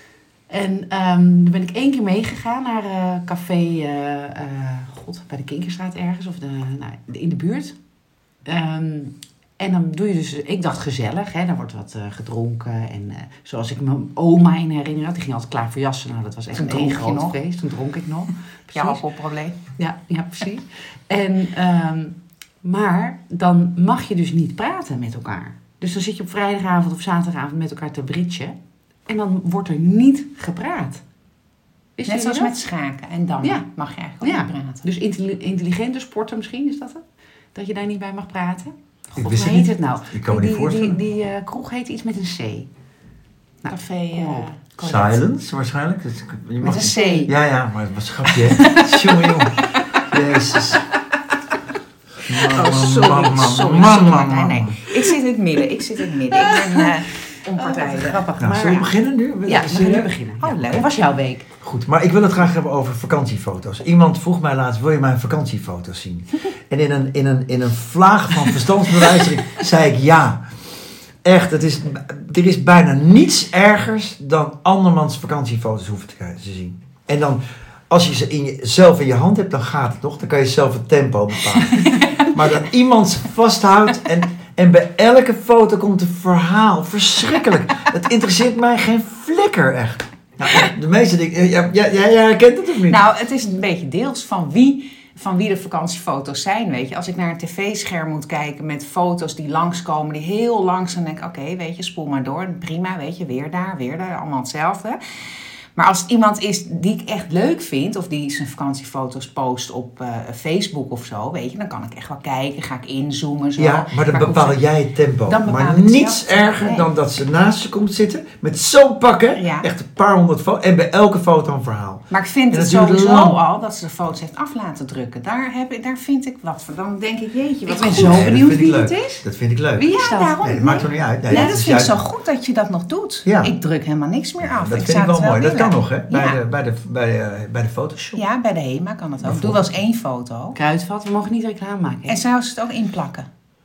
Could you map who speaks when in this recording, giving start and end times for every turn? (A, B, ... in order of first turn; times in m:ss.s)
0:00.5-0:07.8 A
0:08.4-0:19.0 A
0:16.5-0:17.4 B
0:18.7-0:19.6 B
0:19.8-0:31.0 A
0:32.0-0:32.6 A
0:32.1-0:34.9 B
0:34.2-0:37.0 A
0:37.5-0:42.7 A
0:39.2-0:41.0 C
0:43.6-0:44.5 A
0:43.7-0:45.2 B
0:44.8-0:50.9 C
0:46.6-0:47.3 B
0:46.7-0:47.3 A
0:48.6-0:49.3 A
0:49.6-0:49.9 B
0:52.2-0:55.0 C
0:52.3-0:58.3 B
0:56.3-0:58.9 A
0:58.4-1:00.1 C
0:59.4-1:01.5 A
1:00.4-1:00.9 B
1:01.6-1:10.4 C
1:11.2-1:33.0 C
1:32.8-1:45.0 B
1:45.8-1:54.6 B
1:53.6-2:03.4 C
1:55.3-1:56.9 B
1:59.4-1:59.7 B
2:02.1-2:08.4 B
2:07.7-2:09.2 A
2:07.8-2:09.9 C
2:09.8-2:11.6 A
2:09.9-2:16.4 B
2:10.4-2:12.0 C
2:13.3-2:13.5 C
2:14.4-2:18.2 C
2:18.2-2:20.6 B
2:19.2-2:19.8 C
2:20.6-2:22.2 A
2:22.1-2:23.3 B